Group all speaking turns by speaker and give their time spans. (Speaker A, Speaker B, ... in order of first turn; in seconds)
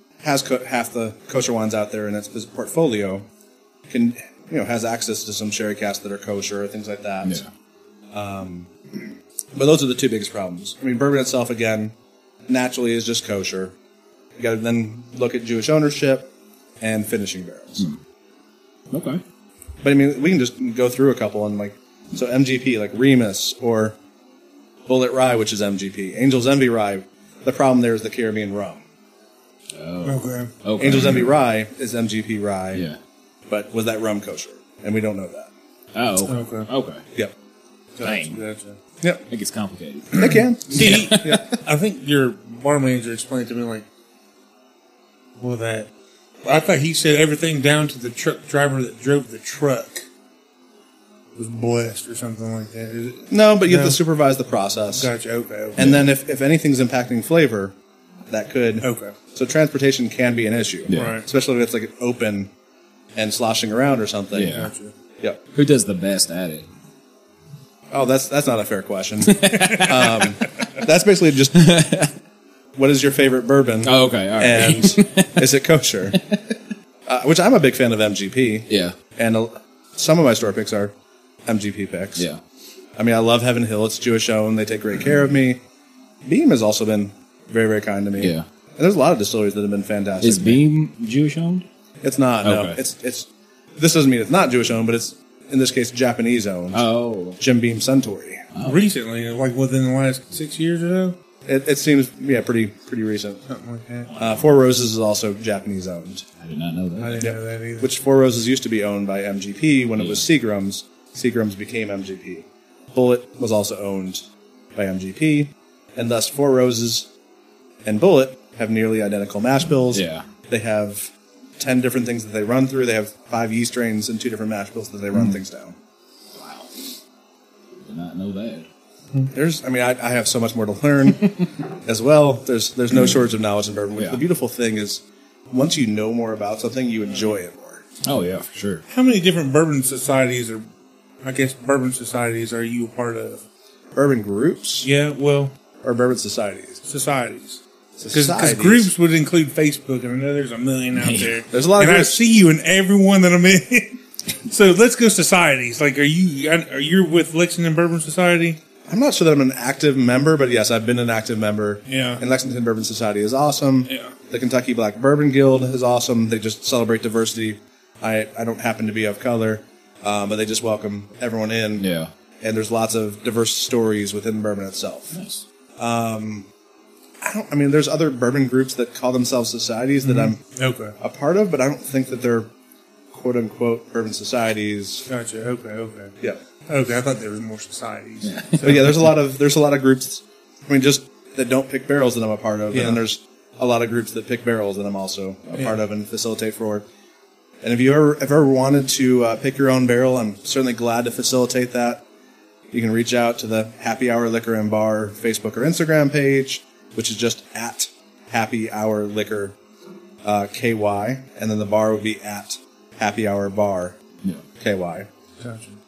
Speaker A: 0.2-3.3, 3.9-7.4, 8.1-11.9, 12.5-13.7, 14.4-16.3, 16.8-17.9, 19.8-24.0, 24.9-28.8, 30.8-32.9, 33.5-35.5, 40.1-41.6, 53.3-55.1, 55.8-57.8, 58.3-62.5, 63.2-64.6, 67.9-71.8, 72.8-76.2, 77.1-80.9, 81.5-82.3, 83.0-85.6, 86.3-90.6, 92.0-96.9, 97.4-98.5, 101.5-103.4, 104.2-106.2, 107.2-114.2, 114.8-117.1, 117.8-125.8, 129.3-137.8, 143.9-144.9, 145.8-146.8, 148.0-148.9, 151.5-152.2, 158.9-171.9, 172.4-175.2, 175.8-176.5, 177.2-180.4, 181.0-182.5, 183.1-185.1, 188.6-196.9, 197.6-202.0, 202.7-209.6, 210.2-214.0, 214.6-215.1
Speaker B: 7.2-7.5, 18.9-19.2, 29.8-31.3, 32.7-33.0, 35.9-37.0, 38.0-38.4, 39.3-41.4, 55.8-56.0, 60.9-61.2, 64.3-64.7, 65.5-66.7, 69.3-70.3, 71.5-72.1, 73.8-75.5, 78.7-79.0, 88.2-88.5, 90.2-91.7, 92.4-92.8, 96.7-97.4, 98.5-98.8, 106.4-107.3, 110.0-110.2, 119.9-120.2, 126.4-126.7, 127.8-128.7, 138.0-138.8, 151.0-151.4, 171.8-172.1, 175.1-175.4, 188.2-188.9
Speaker C: 30.1-30.5, 36.3-36.7, 38.0-38.8, 40.1-43.9, 45.4-45.9, 46.4-50.1, 51.4-54.0, 55.0-55.8, 58.8-59.1, 60.9-61.2, 64.5-64.9, 98.7-101.2, 103.5-104.1, 107.0-107.9, 138.9-140.7, 141.2-143.4, 144.8-145.5, 146.8-147.6, 148.1-158.6, 161.9-162.2, 163.9-164.1, 180.0-180.9, 185.1-186.2, 186.7-188.8, 192.7-193.0, 215.4-215.8